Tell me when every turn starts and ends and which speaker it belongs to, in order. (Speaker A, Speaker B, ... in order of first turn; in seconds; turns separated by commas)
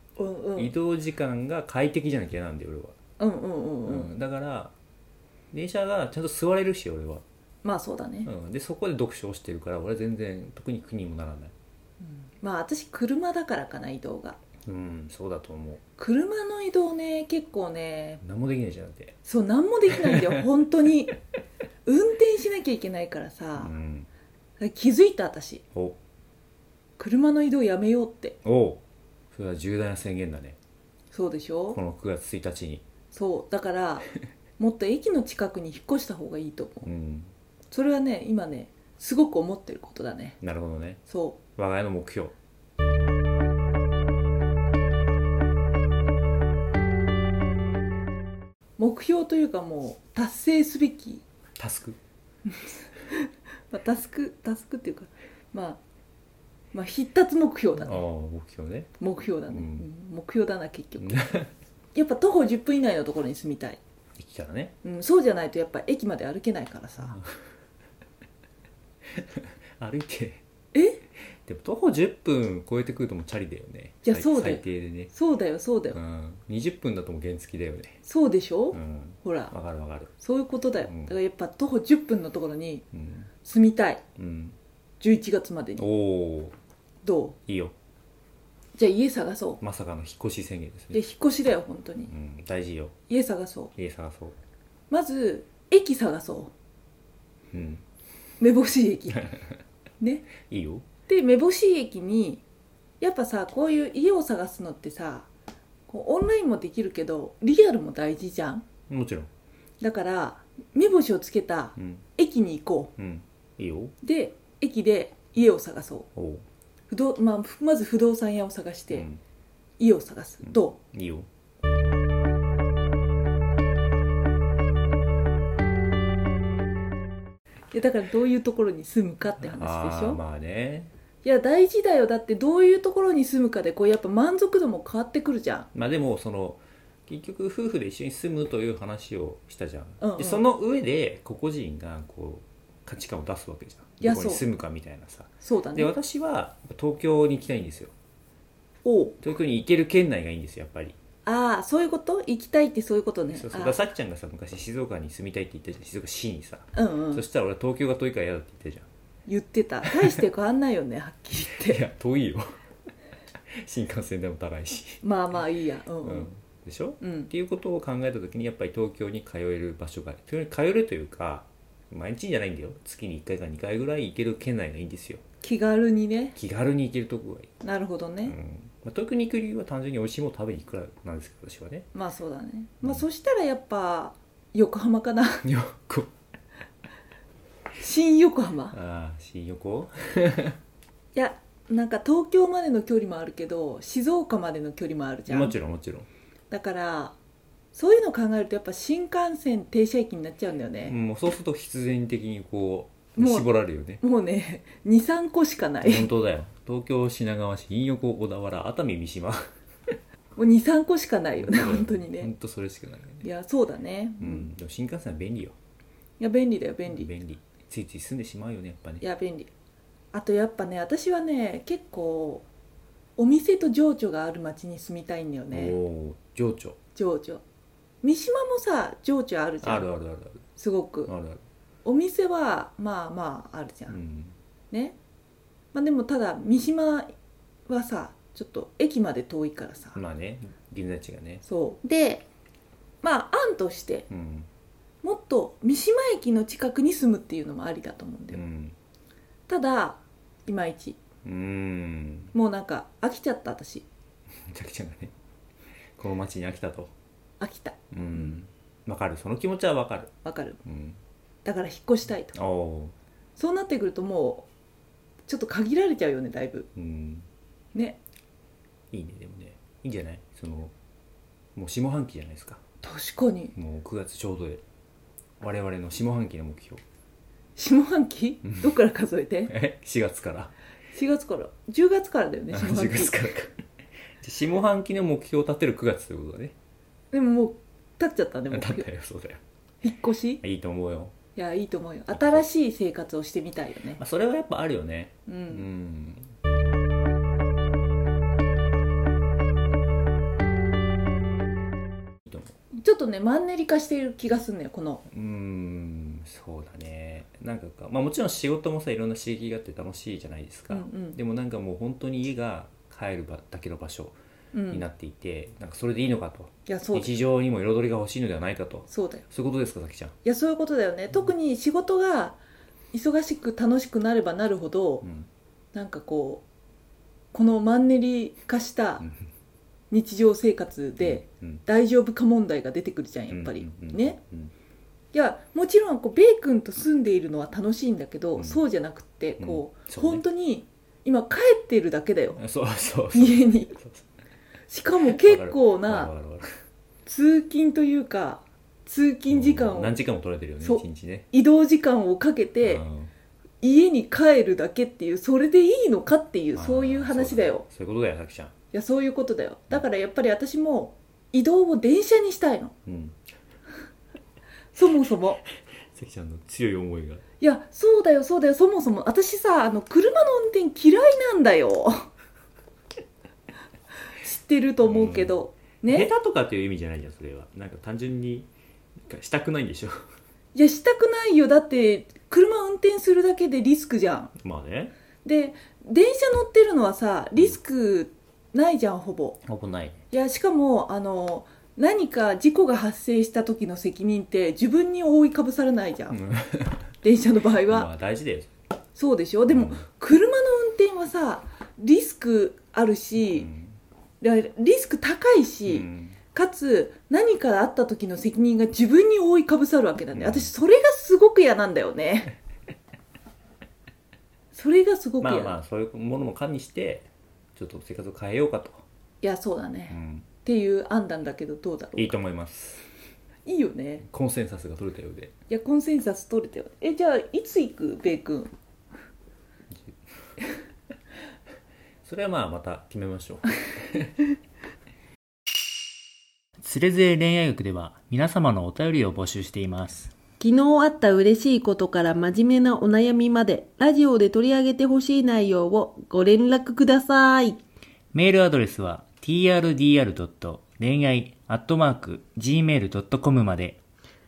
Speaker A: 0.2-0.7, Speaker B: 0.6-2.9, Speaker A: 3.2-4.1, Speaker B: 3.9-4.7, Speaker B: 5.5-7.2, Speaker A: 7.6-8.3, Speaker B: 8.2-11.5, Speaker A: 12.1-14.4, Speaker B: 14.7-15.8, Speaker A: 16.0-18.2, Speaker B: 18.2-19.1, Speaker A: 19.2-21.1, Speaker B: 19.9-20.4, Speaker A: 21.8-23.7, Speaker B: 23.6-24.1, Speaker A: 24.6-25.6, Speaker A: 27.0-28.4, Speaker B: 28.4-30.6, Speaker A: 31.1-31.8, Speaker B: 31.7-32.8, Speaker A: 33.1-36.9, Speaker B: 36.8-37.3, Speaker A: 37.7-40.4, Speaker B: 40.4-41.0, Speaker A: 41.0-41.4, Speaker B: 41.5-42.3, Speaker A: 48.8-51.2, Speaker B: 51.6-52.0, Speaker A: 52.5-55.8, Speaker A: 56.7-58.0, Speaker B: 57.8-58.9, Speaker A: 59.0-61.4, Speaker B: 59.5-59.9, Speaker B: 61.0-61.5, Speaker A: 61.9-63.8, Speaker B: 64.2-64.7, Speaker A: 64.8-67.2, Speaker B: 69.1-70.4, Speaker A: 70.7-71.0, Speaker B: 71.5-75.1, Speaker A: 74.0-76.0, Speaker B: 75.9-78.0, Speaker A: 78.0-79.5, Speaker B: 78.7-80.1, Speaker A: 80.2-82.8, Speaker B: 80.8-81.1, Speaker B: 82.9-83.3, Speaker A: 83.4-84.0, Speaker B: 84.2-84.5, Speaker A: 85.0-85.9, Speaker B: 85.8-86.5, Speaker A: 87.0-87.4, Speaker B: 87.5-87.7, Speaker A: 88.8-89.6, Speaker B: 89.6-91.0, Speaker A: 90.9-92.1, Speaker B: 92.1-92.9, Speaker A: 93.1-93.7, Speaker B: 93.8-94.4, Speaker A: 94.9-96.5, Speaker B: 97.5-97.8, Speaker A: 98.4-99.3, Speaker A: 100.0-100.3, Speaker B: 100.4-100.8, Speaker A: 101.1-102.4, Speaker A: 103.0-105.3, Speaker A: 105.9-108.7, Speaker B: 108.9-109.3, Speaker A: 109.8-112.9, Speaker B: 111.8-112.0, Speaker B: 113.0-113.9, Speaker A: 114.0-116.1, Speaker B: 116.2-116.4, Speaker A: 116.9-119.1, Speaker B: 118.9-119.2, Speaker A: 119.8-120.8, Speaker B: 120.4-121.3, Speaker A: 127.7-130.2, Speaker B: 129.4-130.9, Speaker A: 131.2-135.7, Speaker B: 135.7-147.9, Speaker A: 140.0-140.4, Speaker A: 144.0-144.4, Speaker A: 145.4-145.9, Speaker A: 148.8-149.2, Speaker B: 149.2-150.9, Speaker A: 151.2-153.8, Speaker B: 153.3-158.9, Speaker A: 156.7-157.2, Speaker A: 159.3-161.8, Speaker B: 159.8-160.2, Speaker B: 161.5-162.6, Speaker B: 163.5-165.0, Speaker A: 165.0-166.3, Speaker B: 166.0-175.2, Speaker A: 167.0-167.3, Speaker A: 175.4-176.3, Speaker B: 176.3-177.5, Speaker A: 177.6-178.3, Speaker B: 178.2-181.9, Speaker A: 181.9-185.4, Speaker B: 185.4-186.1, Speaker A: 187.8-188.7, Speaker B: 188.7-190.6, Speaker A: 191.1-195.5, Speaker B: 195.3-196.1, Speaker A: 196.5-197.2, Speaker A: 197.7-200.9, Speaker B: 200.8-204.0, Speaker A: 203.2-206.1, Speaker B: 205.8-209.5, Speaker A: 210.3-212.3, Speaker B: 211.4-213.3, Speaker A: 213.2-214.5, Speaker B: 214.2-215.6, Speaker A: 216.2-217.1, Speaker B: 216.9-219.0, Speaker A: 219.0-219.5, Speaker A: 220.1-222.4, Speaker A: 223.2-225.8, Speaker B: 225.5-226.8, Speaker A: 226.9-227.4, Speaker A: 228.0-229.9, Speaker B: 229.6-230.4, Speaker A: 230.6-231.1, Speaker B: 231.1-231.4, Speaker A: 231.8-234.0, Speaker B: 233.9-234.3, Speaker A: 235.7-237.1, Speaker A: 237.7-240.0, Speaker B: 239.9-241.4, Speaker A: 241.4-242.2, Speaker A: 243.0-244.1, Speaker B: 244.1-244.5, Speaker A: 245.0-248.4, Speaker B: 248.3-248.8, Speaker A: 249.5-251.0, Speaker B: 251.2-252.3, Speaker A: 252.3-253.8, Speaker B: 254.5-255.1, Speaker B: 256.0-256.9, Speaker A: 257.4-258.4, Speaker B: 257.9-260.1, Speaker A: 260.2-260.6, Speaker B: 260.6-261.0, Speaker A: 261.4-262.4, Speaker B: 262.3-262.9, Speaker A: 263.4-264.5, Speaker A: 265.3-266.7, Speaker B: 266.7-267.3, Speaker A: 267.7-268.0, Speaker B: 268.9-270.7, Speaker B: 271.5-272.6, Speaker A: 272.8-273.5, Speaker B: 273.6-274.6, Speaker B: 275.4-276.8, Speaker A: 277.6-279.5, Speaker B: 278.4-278.7, Speaker B: 279.5-280.5, Speaker A: 280.9-283.2, Speaker B: 282.5-283.6, Speaker B: 284.2-286.5, Speaker A: 287.1-288.9, Speaker B: 288.5-289.4, Speaker A: 289.8-290.4, Speaker B: 290.4-291.1, Speaker A: 291.4-294.0, Speaker B: 292.1-292.4, Speaker B: 293.9-296.3, Speaker A: 295.3-295.7, Speaker B: 302.3-302.5, Speaker A: 302.8-305.0, Speaker B: 305.1-314.2, Speaker A: 310.7-311.2, Speaker A: 314.5-314.9, Speaker B: 314.7-320.1, Speaker A: 316.6-317.1, Speaker A: 318.9-319.2, Speaker A: 320.2-322.4, Speaker A: 322.9-325.1, Speaker A: 325.7-326.4, Speaker A: 327.3-329.1, Speaker A: 329.9-334.2, Speaker B: 331.0-331.6, Speaker B: 333.3-334.5, Speaker A: 335.1-342.4, Speaker B: 338.4-338.6, Speaker B: 339.4-340.2, Speaker B: 342.4-344.1, Speaker A: 343.1-343.7, Speaker A: 344.7-346.1, Speaker B: 345.0-346.6, Speaker A: 347.1-350.0, Speaker B: 349.3-351.3, Speaker A: 350.6-352.8, Speaker B: 352.6-353.1, Speaker A: 353.6-357.6, Speaker B: 356.5-358.5, Speaker A: 358.7-362.7, Speaker B: 362.9-363.2, Speaker A: 364.7-365.4, Speaker B: 365.9-367.2, Speaker A: 367.4-372.1, Speaker A: 374.1-376.1, Speaker B: 374.8-378.5, Speaker B: 379.1-380.0, Speaker A: 380.5-384.3, Speaker B: 384.4-384.9, Speaker A: 385.2-389.4, Speaker B: 389.4-390.0, Speaker A: 390.1-396.2, Speaker B: 396.1-396.9, Speaker A: 397.0-397.9, Speaker B: 397.7-398.5, Speaker A: 398.9-403.5, Speaker B: 399.5-399.9, Speaker B: 403.2-403.8, Speaker A: 404.2-412.3, Speaker B: 405.7-406.2, Speaker B: 410.1-410.5, Speaker A: 414.5-415.6, Speaker B: 415.2-418.8, Speaker A: 419.2-422.2, Speaker B: 419.9-420.3, Speaker B: 422.0-422.8, Speaker A: 423.4-424.0, Speaker B: 424.0-425.3, Speaker A: 425.5-428.5, Speaker B: 432.0-434.1, Speaker B: 436.6-440.1, Speaker C: 440.4-447.6, Speaker B: 448.2-453.7